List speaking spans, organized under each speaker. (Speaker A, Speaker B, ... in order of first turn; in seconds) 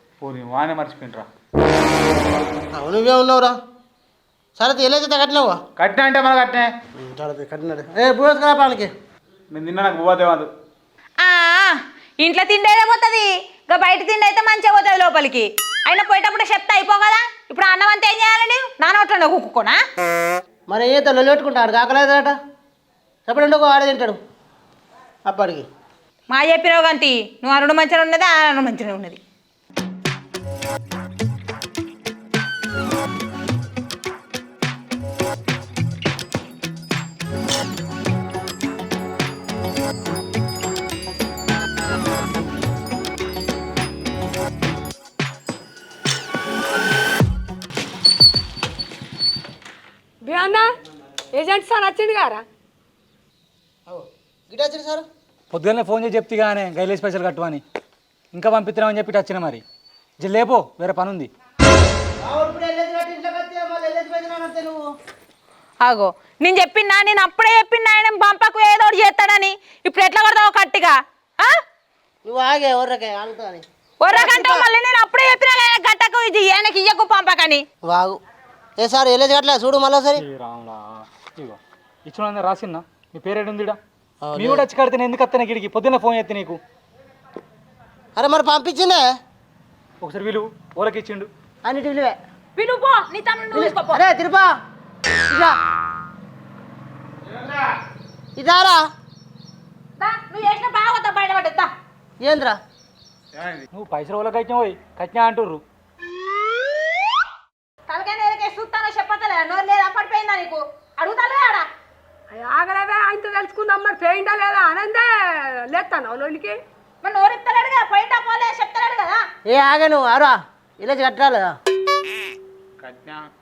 Speaker A: 0.2-1.2, 5.8-6.7, 9.5-10.5, 97.3-97.6, 103.3-103.6, 122.8-123.2
Speaker B: 2.7-3.5, 4.6-5.6, 7.0-8.9, 20.7-22.3, 23.3-24.2, 25.3-25.6, 53.9-55.0, 62.2-64.8, 72.2-74.7, 77.8-78.2, 78.8-80.2, 84.2-84.7, 88.2-89.1, 91.6-92.2, 93.5-94.5, 95.2-95.5, 98.4-98.8, 102.2-102.6, 119.5-121.5
Speaker C: 11.2-19.8, 26.3-29.2, 65.8-71.5, 74.0-77.6, 92.5-94.0, 100.0-101.7, 107.9-111.7, 117.0-119.2
Speaker D: 50.2-50.7, 51.3-52.4, 112.3-116.6
Speaker E: 55.5-57.6, 58.3-59.6, 60.2-61.3, 80.2-83.8, 84.3-86.6, 90.0-91.3, 103.7-105.6